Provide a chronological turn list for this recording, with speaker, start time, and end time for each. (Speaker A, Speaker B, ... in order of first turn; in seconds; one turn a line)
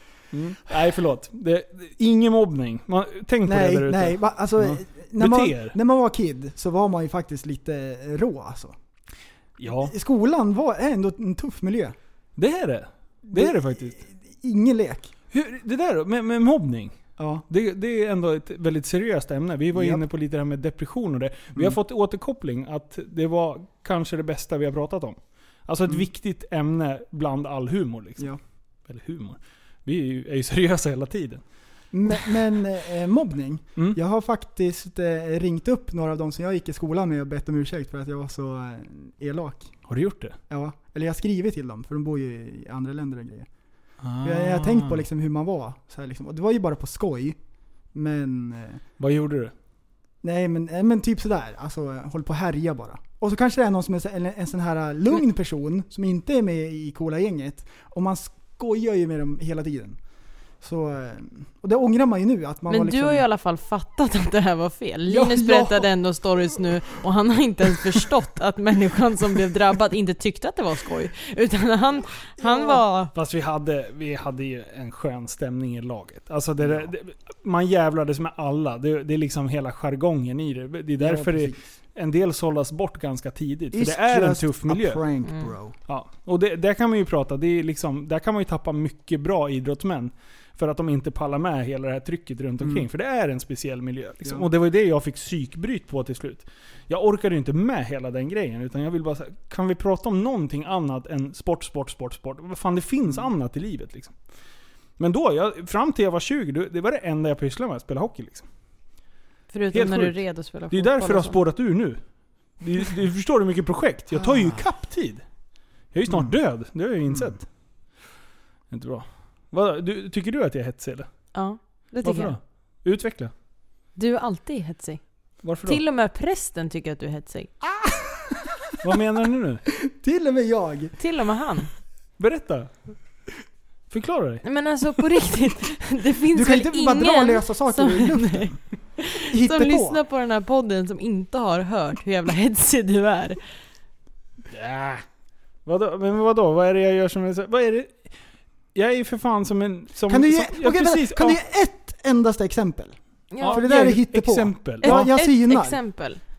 Speaker A: 0.3-5.8
Speaker B: 3.5-8.8
Speaker A: 9.6-9.9
Speaker B: 9.7-11.9
Speaker A: 12.4-14.0
Speaker B: 13.3-15.1
Speaker A: 15.3-28.3
Speaker B: 17.2-17.4
Speaker B: 19.8-20.0
Speaker A: 28.9-31.4
Speaker B: 31.9-39.7
Speaker A: 39.9-40.4
Speaker B: 40.5-43.5
Speaker A: 44.0-45.0
Speaker B: 44.2-47.4
Speaker B: 47.9-48.8
Speaker A: 49.0-49.5
Speaker B: 50.2-60.0
Speaker B: 60.6-63.3
Speaker C: 62.7-73.1
Speaker B: 65.1-65.9
Speaker B: 72.4-72.8
Speaker A: 73.1-85.0
Speaker B: 76.6-76.9
Speaker B: 81.0-81.6
Speaker B: 83.7-85.8
Speaker C: 85.3-85.5
Speaker A: 85.9-104.1
Speaker A: 105.0-108.5
Speaker C: 109.5-111.4
Speaker A: 109.7-112.0
Speaker A: 112.6-115.2
Speaker B: 114.1-114.7
Speaker A: 115.9-117.5
Speaker B: 116.1-116.3
Speaker A: 118.7-121.1
Speaker C: 121.3-122.3
Speaker A: 122.0-123.3
Speaker C: 124.0-125.0
Speaker A: 125.4-125.8
Speaker C: 125.7-127.5
Speaker B: 127.9-128.4
Speaker A: 128.8-129.7
Speaker B: 129.7-130.9
Speaker C: 131.0-131.7
Speaker A: 132.2-132.7
Speaker A: 133.9-134.4
Speaker C: 134.4-143.4
Speaker B: 136.3-138.6
Speaker B: 139.3-140.0
Speaker A: 144.5-145.0
Speaker A: 145.7-148.1
Speaker A: 148.8-151.4
Speaker B: 150.1-155.8
Speaker C: 153.3-153.6
Speaker A: 153.4-155.1
Speaker C: 154.8-156.2